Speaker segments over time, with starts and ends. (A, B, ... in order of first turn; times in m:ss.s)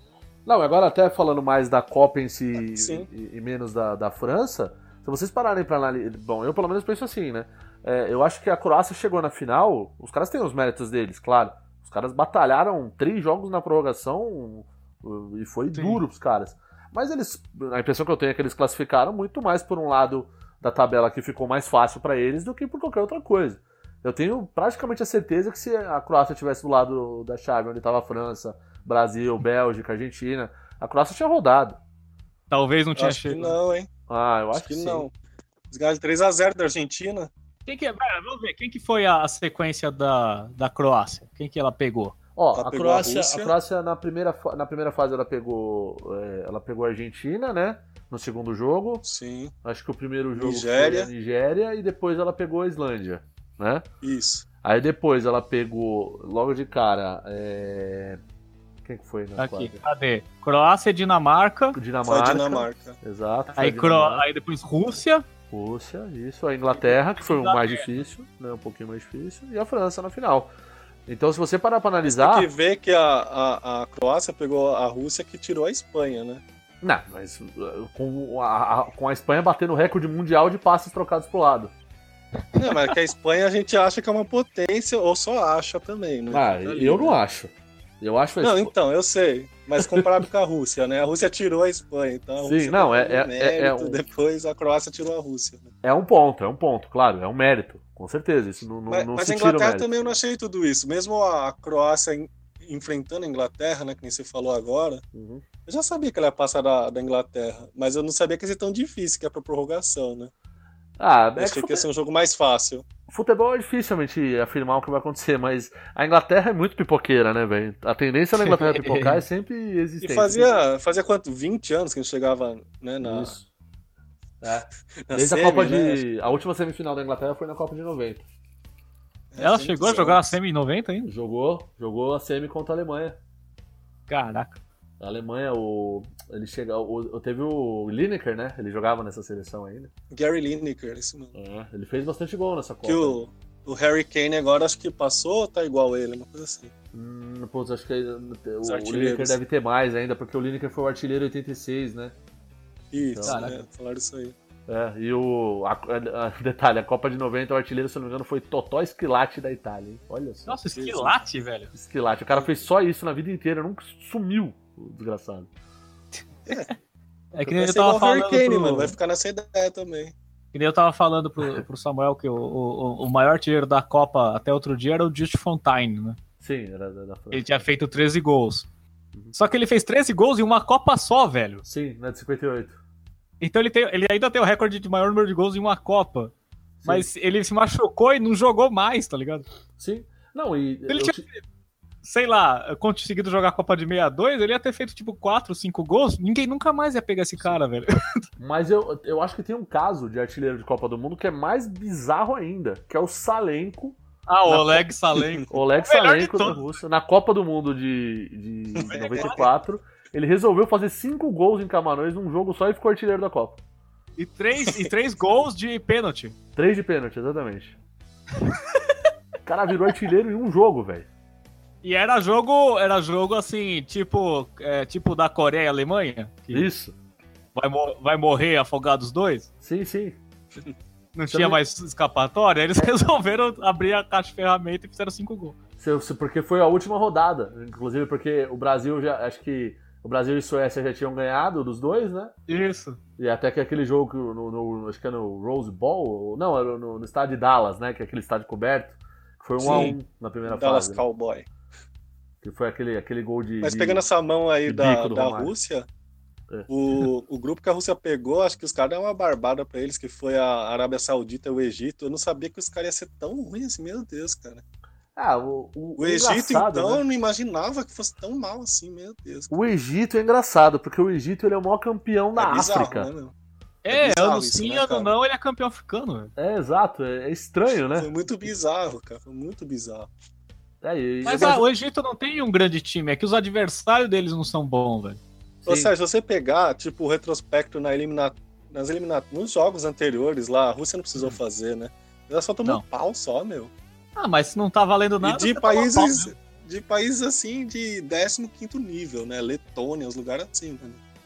0:00.4-0:31.8 A
0:02.7-0:03.1 B
0:15.7-0:16.0 C
0:32.5-0:33.6 C
0:33.0-0:33.9 B
0:34.1-0:35.1 A
0:34.6-0:35.1 B
0:35.7-0:37.3 B
0:37.6-0:42.1 C
0:42.4-0:49.0 A
0:42.5-0:43.5 B
0:49.0-0:49.5 B
0:49.6-0:53.8 A
0:50.4-0:51.1 B
0:54.0-0:54.4 B
0:54.6-0:58.2 A
0:58.8-0:59.8 A
0:59.4-1:01.8 C
1:01.7-1:04.2 A
1:02.0-1:03.0 B
1:03.5-1:05.2 C
1:05.5-1:10.5 A
1:07.2-1:07.9 C
1:11.1-1:12.5 A
1:12.0-1:16.4 B
1:16.8-1:21.7 A
1:22.6-1:27.2 B
1:26.3-1:28.7 A
1:28.4-1:35.7 B
1:29.8-1:30.2 A
1:32.4-1:34.0 A
1:35.8-1:39.9 A
1:38.9-1:45.0 B
1:45.1-1:45.4 A
1:45.6-1:50.3 B
1:51.0-1:51.9 A
1:51.4-1:52.8 B
1:53.1-2:00.5 A
1:58.4-1:59.2 C
2:00.0-2:03.4 B
2:03.0-2:03.5 A
2:04.4-2:08.2 A
2:05.1-2:06.0 B
2:09.3-2:10.3 B
2:09.4-2:11.1 C
2:11.0-2:13.2 A
2:14.1-2:14.6 C
2:15.0-2:19.9 A
2:20.1-2:21.3 B
2:21.3-2:23.2 A
2:22.8-2:26.7 B
2:26.9-2:32.1 A
2:28.6-2:29.4 B
2:32.9-2:34.3 B
2:33.0-2:33.5 A
2:33.2-2:33.6 C
2:34.7-2:40.6 A
2:40.4-2:41.7 C
2:40.7-2:41.2 B
2:41.7-2:45.5 A
2:47.3-2:49.0 C
2:47.4-2:50.1 B
2:50.5-2:56.2 C
2:56.4-2:57.4 A
2:57.3-2:58.7 C
2:59.3-3:01.6 C
3:01.6-3:02.8 A
3:03.4-3:06.3 C
3:06.8-3:07.1 A
3:06.8-3:09.4 C
3:09.8-3:11.2 A
3:10.9-3:11.4 C
3:12.0-3:18.2 C
3:18.4-3:24.0 A
3:24.3-3:26.6 C
3:24.5-3:24.8 A
3:25.5-3:33.6 A
3:28.8-3:29.5 B
3:28.9-3:29.4 C
3:34.2-3:36.3 C
3:36.6-3:37.8 A
3:39.4-3:41.1 A
3:41.8-3:46.7 C
3:46.5-3:46.9 A
3:47.5-3:49.5 C
3:49.6-3:50.2 A
3:51.1-3:55.6 C
3:51.3-3:51.6 A
3:55.8-4:02.3 A
4:02.5-4:03.0 C
4:03.2-4:11.0 A
4:09.6-4:09.9 B
4:09.6-4:10.0 C
4:10.4-4:11.5 B
4:12.4-4:14.0 A
4:13.6-4:15.9 B
4:14.6-4:15.5 A
4:16.7-4:24.6 B
4:25.2-4:27.0 A
4:26.0-4:29.5 B
4:29.5-4:33.1 A
4:32.4-4:33.3 B
4:33.8-4:36.3 C
4:33.9-4:35.1 B
4:36.4-4:38.1 A
4:38.0-4:40.1 B
4:40.8-4:41.6 A
4:41.2-4:45.2 C
4:45.6-4:45.9 A
4:45.6-4:53.7 B
4:54.2-4:56.3 C
4:55.2-5:01.0 B